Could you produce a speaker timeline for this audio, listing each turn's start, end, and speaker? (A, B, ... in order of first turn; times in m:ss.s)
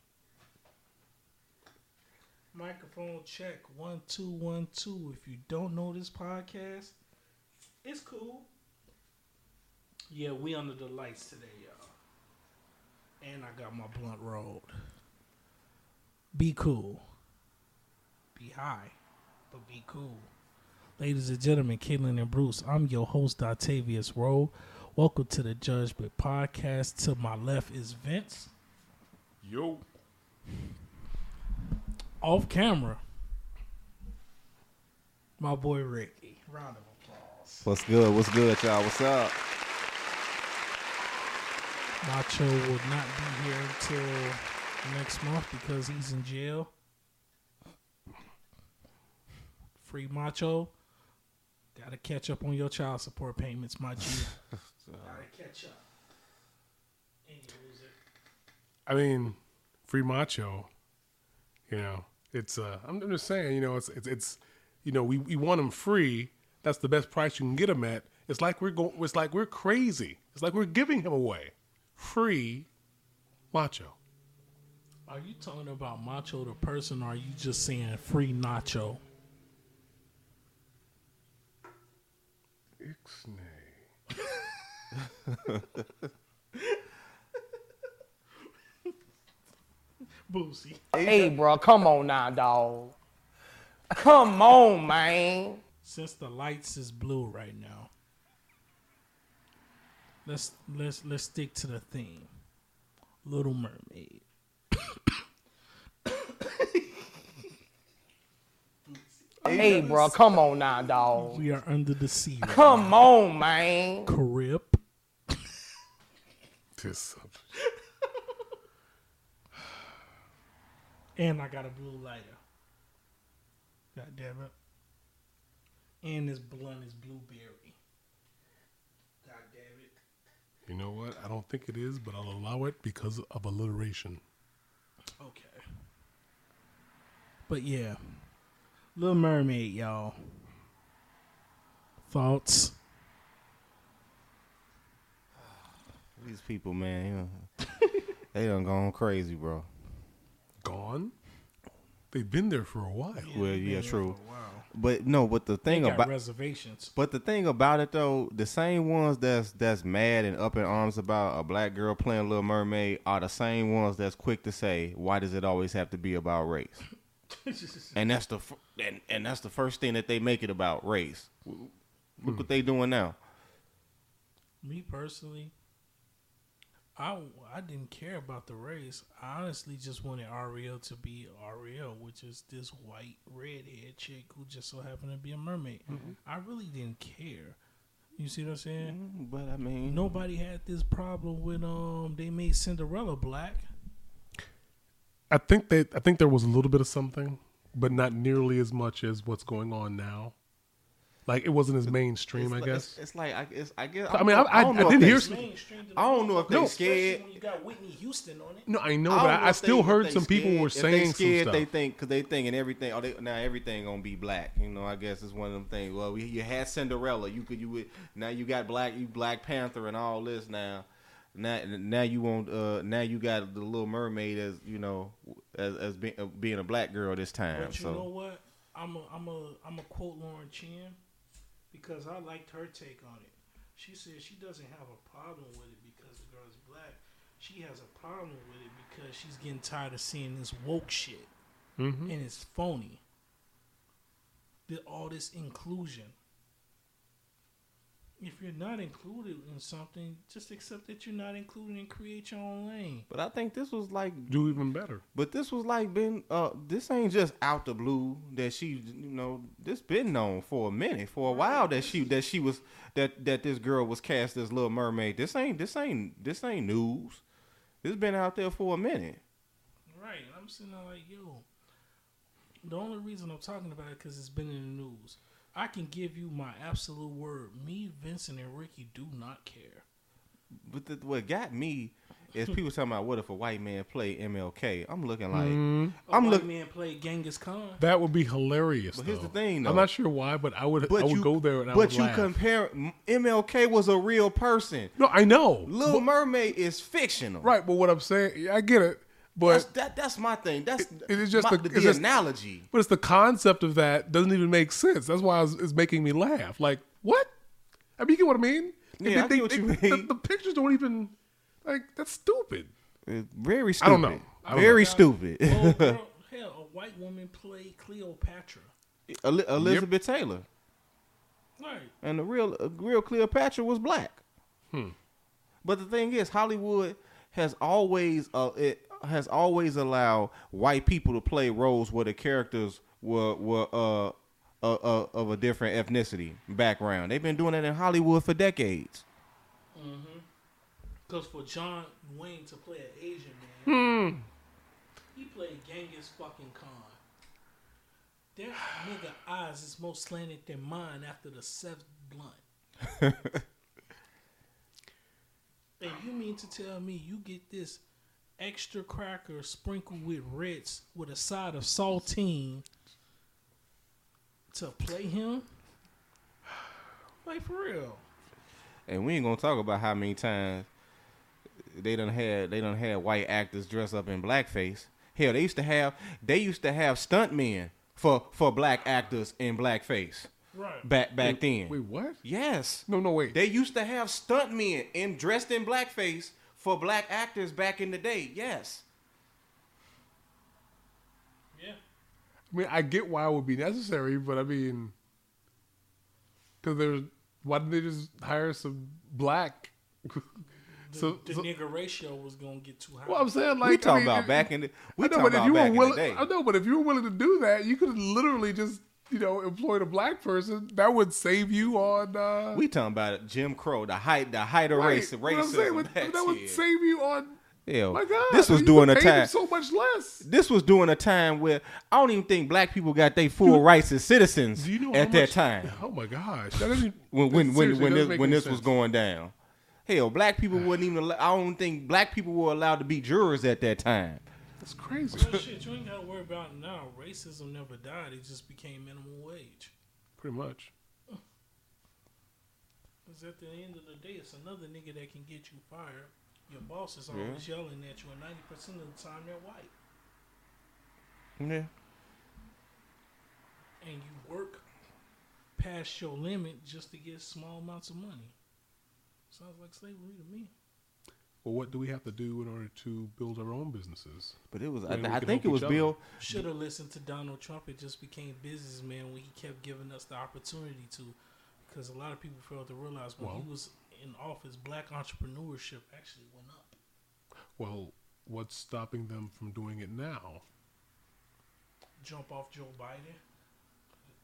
0:02.5-0:07.0 A
0:07.8-0:08.5 A
0:10.1-0:11.9 A
0:13.2-0:14.7 A
0:16.3-0:17.0 A
0:18.4-0:19.0 A
0:19.5-0:20.3 A
0:21.0-0:28.5 A
0:29.4-0:29.8 B
0:32.2-0:33.0 A
0:35.4-0:37.7 A
0:37.6-0:39.4 C
0:42.0-0:46.7 A
0:49.8-0:50.7 A
0:51.8-0:54.4 A
0:54.8-0:55.2 C
0:55.0-0:55.8 A
0:57.3-0:58.0 A
0:58.9-1:00.7 B
1:01.7-1:12.7 B
1:13.5-1:14.0 B
1:15.1-1:19.0 A
1:22.8-1:23.8 B
1:30.3-1:31.3 A
1:30.9-1:31.3 C
1:31.0-1:33.0 D
1:34.0-1:35.6 D
1:35.8-1:37.9 A
1:40.2-1:42.3 A
1:43.2-1:44.2 A
1:44.8-1:45.2 A
1:46.1-1:47.3 A
1:48.9-1:50.1 A
1:49.5-1:50.0 C
1:49.5-1:51.5 D
1:49.5-1:49.8 B
1:51.2-1:53.0 A
1:52.4-1:54.1 D
1:54.1-1:54.8 A
1:56.8-1:57.5 B
2:01.2-2:02.4 A
2:04.0-2:04.5 A
2:06.0-2:07.8 A
2:09.2-2:10.0 A
2:10.7-2:14.2 B
2:15.2-2:15.6 A
2:17.5-2:18.2 A
2:19.0-2:20.2 A
2:22.1-2:22.8 A
2:26.2-2:27.5 C
2:28.3-2:29.7 C
2:30.6-2:31.1 B
2:32.1-2:33.3 B
2:33.2-2:34.7 A
2:33.3-2:34.2 C
2:34.7-2:36.1 C
2:35.7-2:36.9 A
2:37.0-2:46.8 C
2:47.4-2:48.0 A
2:48.0-2:51.3 C
2:52.2-2:53.2 C
2:52.2-2:52.5 B
2:54.6-2:55.5 A
2:57.0-3:07.6 A
3:05.9-3:06.2 B
3:08.2-3:09.0 A
3:08.8-3:10.2 C
3:09.9-3:13.7 A
3:15.3-3:20.4 B
3:21.3-3:23.0 B
3:21.9-3:25.2 C
3:24.1-3:25.5 B
3:24.6-3:28.7 A
3:26.0-3:27.3 C
3:26.5-3:26.8 B
3:28.7-3:31.7 B
3:29.1-3:48.1 C
3:47.5-3:51.0 A
3:51.7-4:01.3 A
4:01.8-4:02.2 B
4:02.1-4:03.0 A
4:04.7-4:06.2 A
4:08.2-4:13.1 A
4:13.1-4:14.6 C
4:14.3-4:15.0 B
4:15.1-4:27.2 C
4:21.2-4:22.0 A
4:27.8-4:29.2 C
4:29.9-4:31.4 A
4:32.6-4:39.8 A
4:40.6-4:46.5 C
4:45.3-4:46.0 B
4:46.1-4:47.8 A
4:47.8-4:52.3 B
4:48.9-4:49.9 C
4:50.9-4:54.9 C
4:55.0-4:56.1 B
4:55.7-4:57.5 C
4:57.4-4:59.7 B
4:59.5-5:02.7 C
5:00.8-5:02.0 B
5:02.7-5:07.3 B
5:08.0-5:11.1 B
5:09.0-5:10.1 C
5:11.6-5:12.7 B
5:13.1-5:16.0 C
5:13.8-5:14.9 B
5:14.5-5:18.7 A
5:19.1-5:20.5 C
5:19.6-5:19.9 B
5:21.6-5:21.9 A
5:22.0-5:24.2 C
5:25.6-5:39.0 C
5:39.7-5:40.2 A
5:41.1-5:43.8 A
5:43.7-5:44.3 B
5:45.2-5:47.0 A
5:48.4-5:52.4 A
5:53.0-5:53.4 C
5:55.8-5:57.8 A
5:58.4-6:02.6 A
6:04.5-6:05.5 A
6:07.2-6:08.0 A
6:08.9-6:10.7 C
6:11.6-6:20.3 C
6:20.5-6:20.9 A
6:20.8-6:28.8 C
6:21.2-6:22.2 B
6:22.9-6:23.4 B
6:31.5-6:31.8 A
6:32.5-6:34.9 B
6:36.6-6:40.3 B
6:40.9-6:43.3 A
6:40.9-6:41.5 B
6:43.1-6:52.6 B
6:43.6-6:46.3 C
6:52.5-6:56.6 C
6:54.7-7:00.3 B
6:57.7-6:59.3 C
7:00.2-7:05.8 C
7:04.6-7:08.7 B
7:07.1-7:09.3 C
7:09.9-7:14.2 C
7:14.6-7:15.4 B
7:15.1-7:19.7 A
7:20.2-7:20.7 B
7:23.1-7:29.7 A
7:27.1-7:27.4 C
7:31.4-7:31.7 C
7:33.8-7:34.6 A
7:35.6-7:38.3 A
7:39.3-7:40.5 A
7:41.4-7:46.5 B
7:44.5-7:46.0 C
7:46.2-7:56.8 A
7:53.2-7:53.5 B
7:57.6-8:00.4 B
8:02.0-8:03.2 A